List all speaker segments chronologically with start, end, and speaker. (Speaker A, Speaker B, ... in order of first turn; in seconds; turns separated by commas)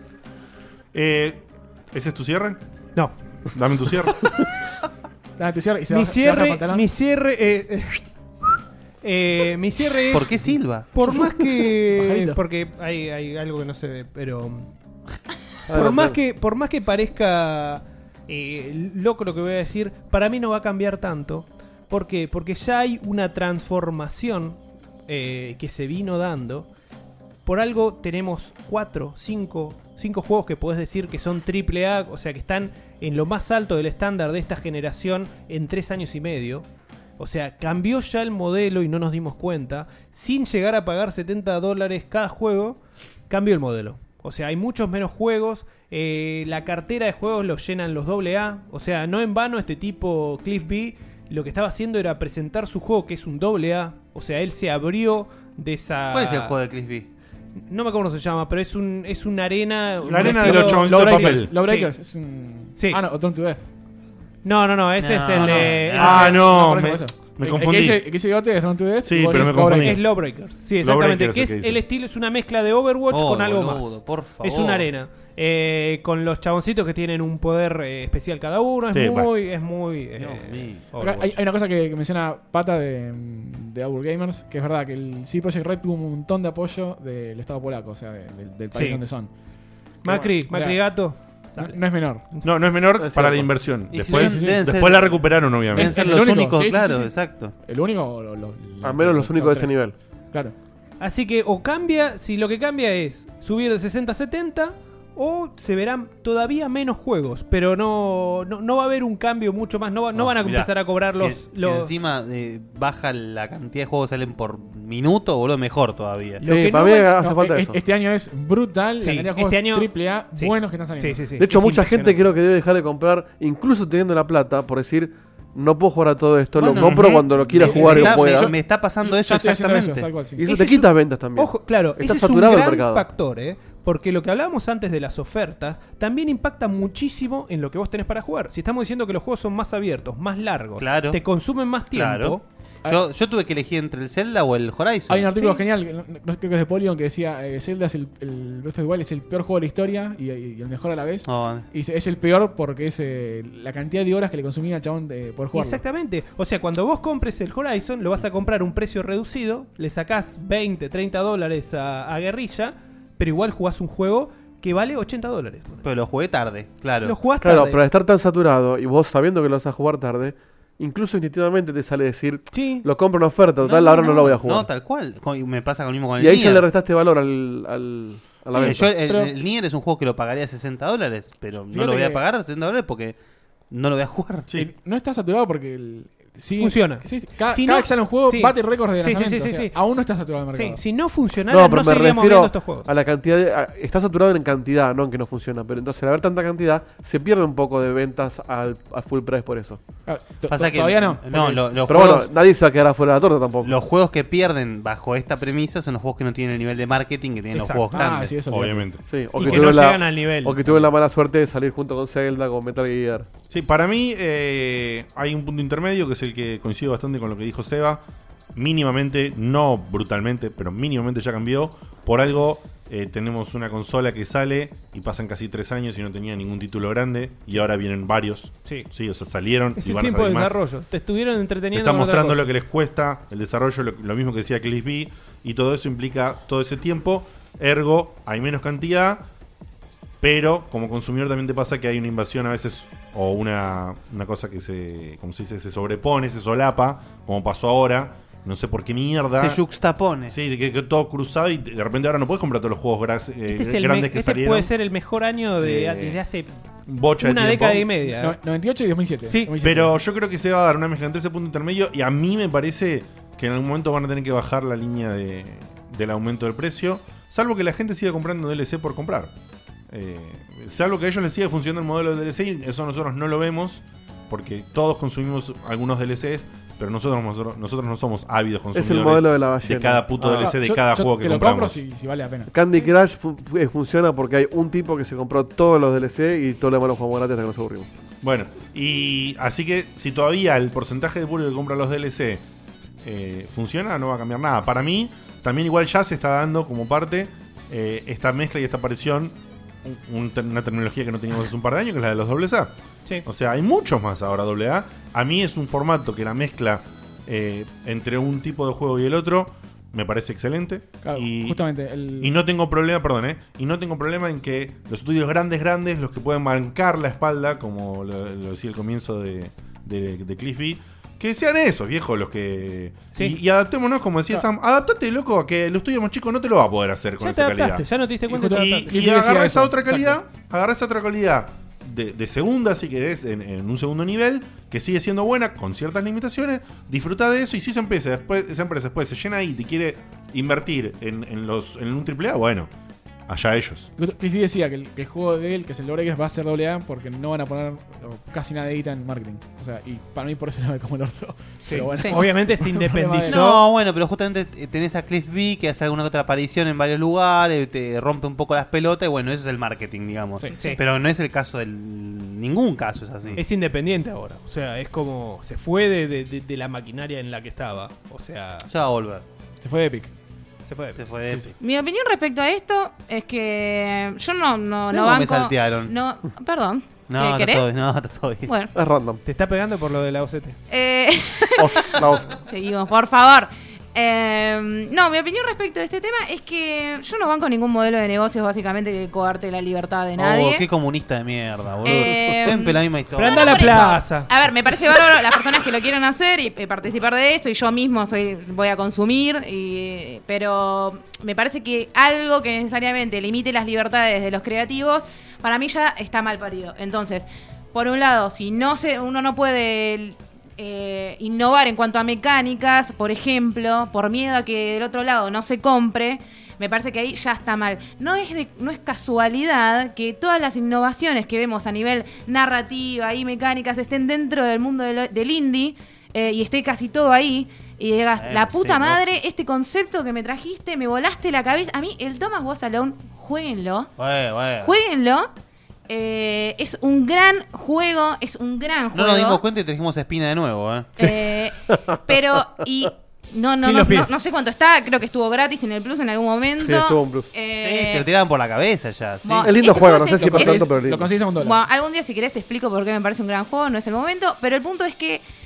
Speaker A: 0.9-2.6, Speaker A: 3.5-4.5, Speaker B: 5.4-6.8, Speaker C: 5.9-8.0, Speaker C: 9.0-14.7, Speaker D: 10.1-10.9, Speaker B: 11.9-12.4, Speaker E: 15.7-16.2, Speaker C: 15.7-26.7, Speaker C: 27.4-36.6, Speaker C: 37.2-42.8, Speaker C: 43.3-56.5, Speaker D: 56.1-57.1, Speaker C: 57.7-61.9, Speaker A: 60.0-61.5, Speaker B: 60.2-63.6, Speaker C: 64.4-66.4, Speaker D: 65.0-66.4, Speaker B: 65.4-70.0, Speaker A: 66.0-68.1, Speaker A: 69.0-71.8, Speaker C: 69.3-81.3, Speaker D: 73.1-74.9, Speaker A: 78.9-79.3, Speaker D: 80.2-81.2, Speaker B: 81.0-89.3, Speaker C: 88.7-89.0, Speaker B: 90.0-90.8, Speaker C: 90.0-91.7, Speaker B: 91.6-92.2, Speaker A: 92.4-96.0, Speaker E: 93.0-93.5, Speaker D: 93.9-97.5, Speaker B: 94.0-94.6, Speaker B: 95.7-97.1, Speaker B: 97.6-99.8, Speaker E: 98.8-99.9, Speaker C: 101.0-111.9, Speaker D: 110.1-116.4, Speaker C: 116.4-117.1, Speaker E: 116.4-117.8, Speaker B: 117.2-121.2, Speaker C: 119.0-122.2, Speaker E: 121.4-128.5, Speaker D: 126.6-130.1, Speaker B: 127.6-130.4, Speaker C: 127.8-128.2, Speaker C: 130.4-142.4, Speaker E: 130.4-133.1, Speaker D: 140.8-141.2, Speaker D: 141.9-145.6, Speaker B: 145.1-155.8, Speaker D: 151.2-151.7, Speaker C: 155.5-165.8, Speaker D: 165.8-167.2, Speaker C: 167.0-167.8, Speaker E: 167.4-174.7, Speaker C: 172.5-172.8, Speaker D: 173.6-176.6, Speaker E: 176.2-178.9, Speaker B: 178.5-179.3, Speaker D: 178.5-183.2, Speaker B: 181.7-182.2, Speaker D: 183.7-184.5, Speaker B: 184.5-190.8, Speaker C: 186.6-189.8, Speaker C: 190.5-192.9, Speaker E: 191.5-199.8, Speaker B: 200.1-201.7, Speaker D: 200.5-202.3, Speaker E: 201.8-203.7, Speaker D: 203.6-208.4, Speaker C: 207.5-207.9, Speaker B: 207.9-208.9, Speaker A: 208.5-209.0, Speaker E: 209.1-213.3, Speaker C: 209.4-210.6, Speaker A: 213.5-218.0, Speaker A: 218.6-230.6, Speaker C: 229.8-232.5, Speaker A: 231.7-239.2, Speaker A: 240.2-249.6, Speaker D: 249.4-250.3, Speaker A: 250.3-254.7, Speaker C: 253.5-256.5, Speaker A: 255.6-256.2, Speaker A: 256.9-257.9, Speaker C: 257.2-258.4, Speaker B: 258.2-260.0, Speaker A: 259.6-269.3, Speaker A: 269.9-281.8, Speaker E: 278.7-280.5, Speaker B: 280.3-282.5, Speaker E: 282.5-287.9, Speaker A: 288.2-292.4, Speaker A: 293.0-302.7, Speaker A: 303.2-311.6, Speaker B: 311.0-312.4, Speaker A: 312.2-327.8, Speaker C: 327.2-329.0, Speaker B: 328.3-330.2, Speaker A: 328.5-342.7, Speaker A: 343.3-343.9, Speaker B: 344.0-353.4, Speaker C: 351.6-353.6, Speaker D: 353.2-363.4, Speaker C: 360.5-360.8, Speaker C: 363.4-368.7, Speaker D: 368.6-369.2, Speaker B: 369.6-370.1, Speaker C: 370.6-371.0, Speaker D: 370.9-371.5, Speaker F: 371.6-377.6, Speaker D: 374.9-375.9, Speaker D: 377.1-378.5, Speaker F: 378.4-378.7, Speaker E: 378.7-379.2, Speaker C: 379.2-380.6, Speaker F: 380.7-390.7, Speaker E: 381.6-382.3, Speaker D: 390.2-393.8, Speaker F: 391.8-433.9, Speaker E: 391.9-392.2, Speaker C: 393.1-394.3, Speaker D: 428.2-429.0, Speaker D: 434.0-434.8, Speaker F: 434.6-435.3, Speaker F: 435.9-439.4, Speaker D: 438.9-441.0, Speaker F: 441.0-448.1, Speaker E: 441.7-442.0, Speaker C: 443.6-444.1, Speaker E: 446.6-447.3, Speaker D: 447.6-449.7, Speaker F: 449.2-450.7, Speaker E: 449.4-451.1, Speaker B: 450.0-451.6, Speaker F: 451.3-455.2